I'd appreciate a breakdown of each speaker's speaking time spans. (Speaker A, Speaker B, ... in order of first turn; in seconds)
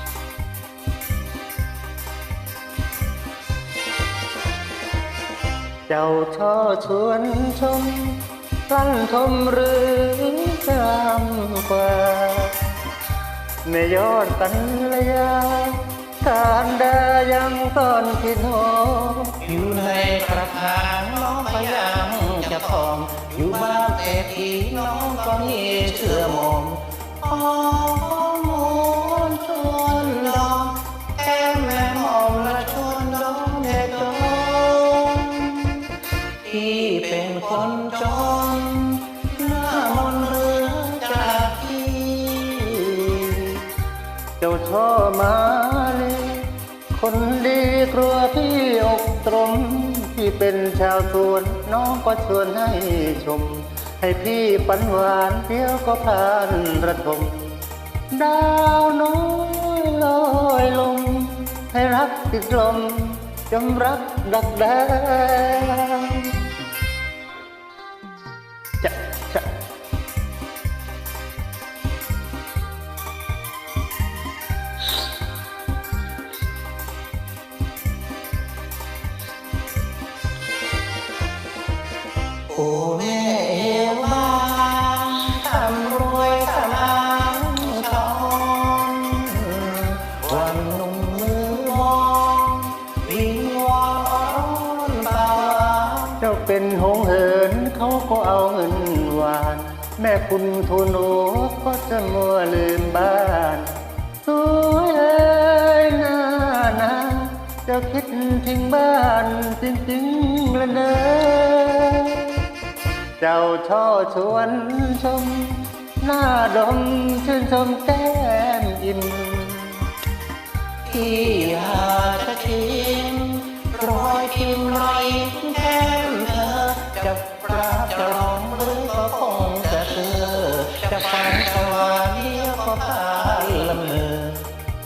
Speaker A: 5.9-12.6, 13.7-19.4, 44.4-57.5, 58.1-66.4, 68.8-69.5, 96.2-103.7, 104.2-112.4, 113.2-119.8
Speaker B: 19.4-35.9, 36.4-43.6, 82.5-96.2, 120.8-134.4